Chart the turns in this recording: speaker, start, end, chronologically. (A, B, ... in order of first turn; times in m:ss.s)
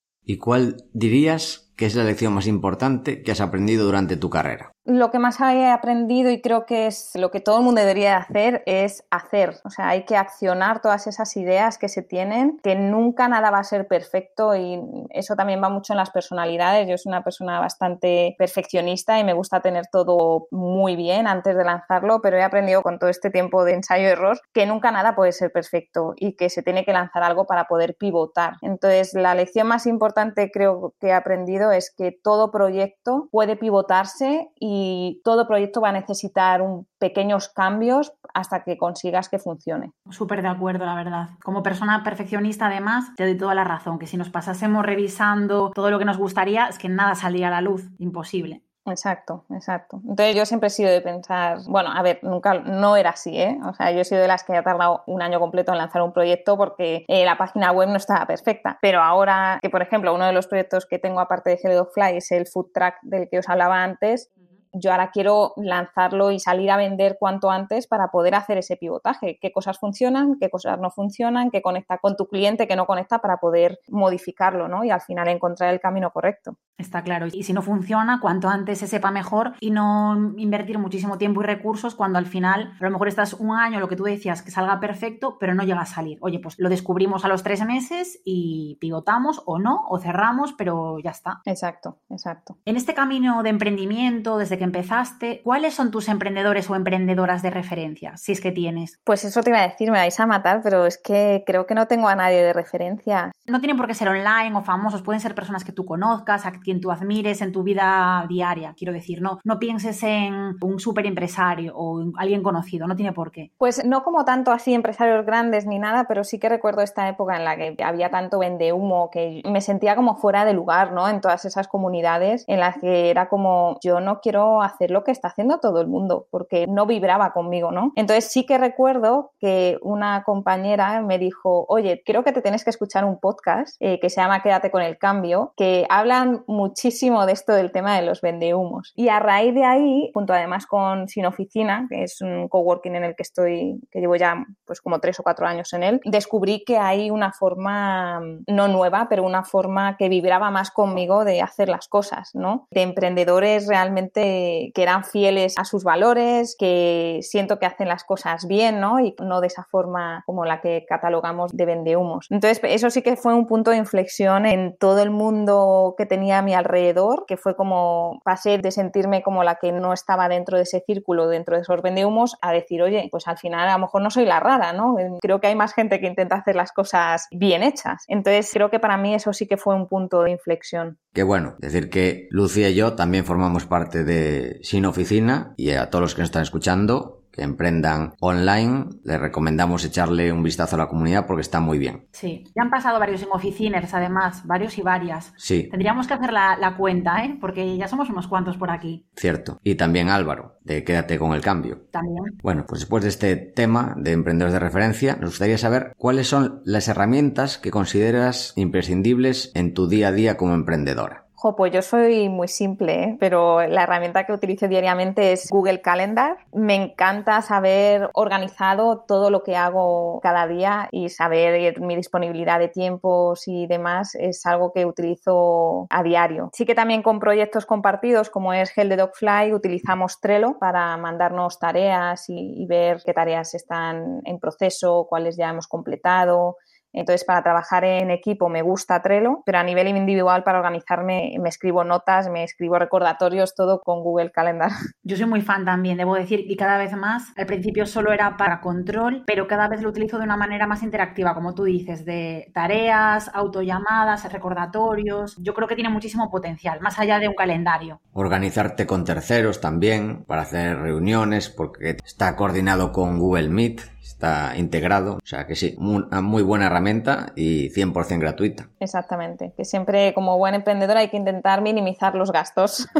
0:00.3-0:04.7 A
0:04.9-0:39.9 B
0:40.1-0:48.6 C
0:48.9-1:16.6 B
1:16.8-1:31.4 C
1:31.5-1:32.6 B
1:32.7-1:39.0 C
1:39.1-1:43.3 B
1:43.5-1:53.5 C
1:53.6-3:01.0 B
3:01.2-3:12.0 A
3:12.1-3:19.0 C
3:15.4-3:15.7 A
3:19.2-3:21.8 A
3:21.9-3:22.4 C
3:22.4-3:31.2 A
3:31.4-4:04.7 B
4:05.0-4:18.0 C
4:18.2-4:28.7 A
4:28.8-4:32.9 B